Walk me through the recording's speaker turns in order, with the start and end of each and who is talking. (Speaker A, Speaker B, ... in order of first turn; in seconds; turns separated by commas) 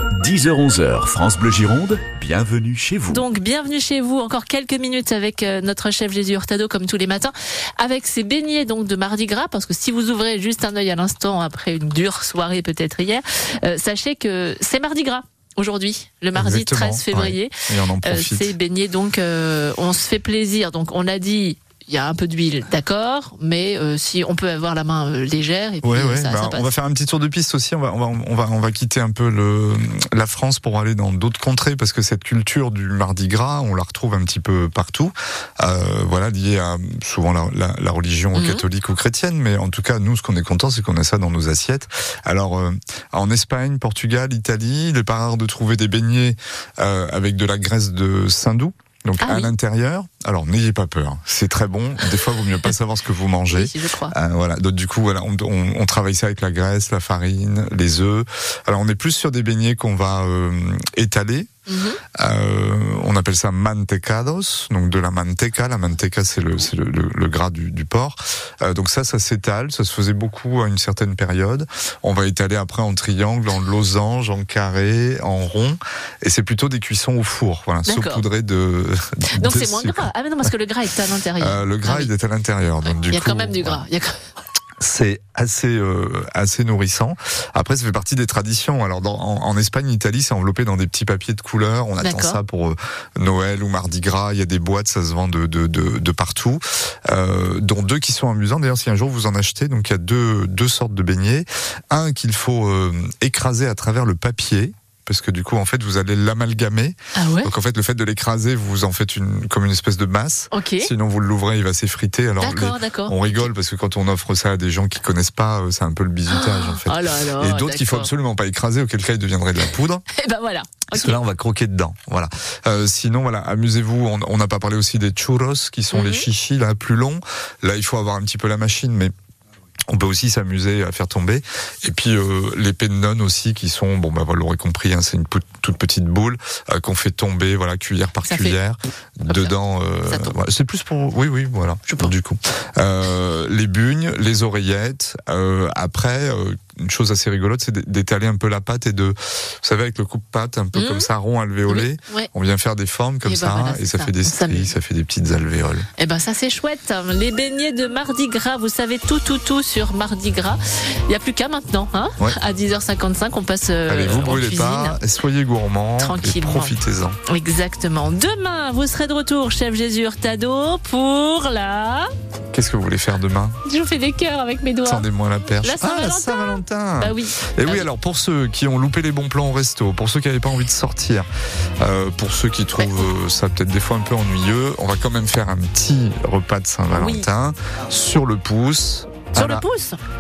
Speaker A: 0.1-3.2, Speaker B: 3.1-17.5, Speaker C: 16.4-18.5, Speaker B: 18.0-26.7, Speaker C: 25.8-61.5, Speaker B: 38.4-38.6, Speaker B: 49.2-49.5, Speaker B: 53.5-54.1, Speaker B: 61.7-62.0, Speaker C: 62.2-80.1, Speaker B: 77.9-78.2, Speaker B: 79.4-82.1, Speaker C: 81.4-83.8, Speaker B: 83.1-84.2, Speaker C: 84.8-120.0, Speaker B: 92.0-92.4, Speaker B: 107.2-107.5, Speaker B: 110.5-110.9, Speaker B: 112.4-113.5, Speaker B: 116.3-118.1, Speaker B: 120.2-121.2, Speaker C: 120.9-129.1, Speaker B: 125.9-126.3, Speaker C: 129.9-155.9, Speaker B: 138.3-138.6, Speaker B: 139.3-139.5, Speaker B: 140.1-140.3, Speaker B: 150.8-151.1, Speaker B: 151.7-152.3, Speaker B: 153.2-154.7, Speaker B: 156.0-165.0, Speaker C: 163.9-167.2, Speaker B: 166.0-166.7, Speaker B: 167.3-172.1, Speaker C: 172.5-173.6, Speaker B: 173.7-175.1, Speaker C: 174.8-181.3, Speaker B: 175.6-177.9, Speaker C: 181.8-189.6, Speaker B: 182.8-183.1, Speaker B: 187.0-187.3, Speaker B: 189.3-190.0